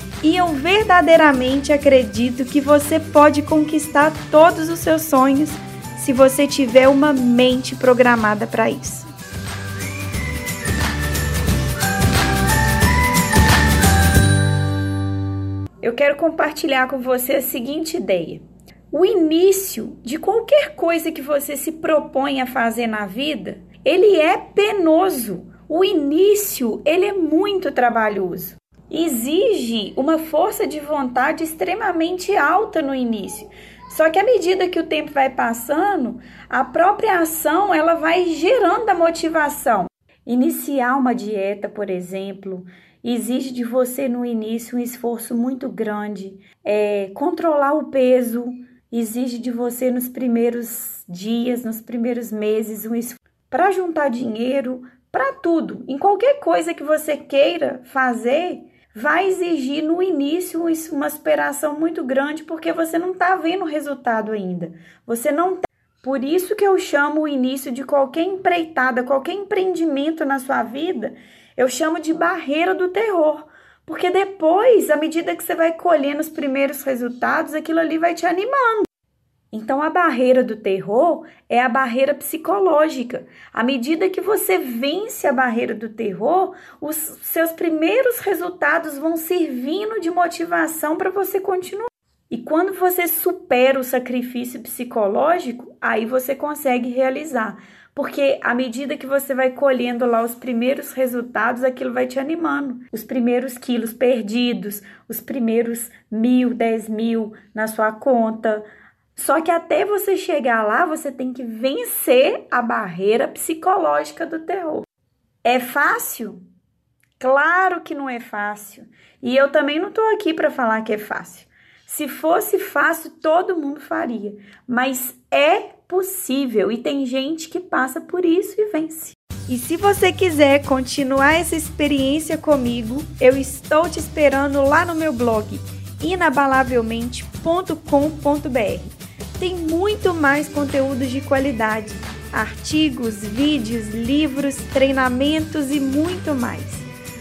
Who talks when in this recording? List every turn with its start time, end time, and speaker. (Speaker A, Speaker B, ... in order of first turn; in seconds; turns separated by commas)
Speaker A: 0.2-9.1, Speaker A: 15.8-78.9, Speaker A: 79.5-108.6, Speaker A: 109.2-114.9, Speaker A: 115.4-116.4, Speaker A: 117.2-146.9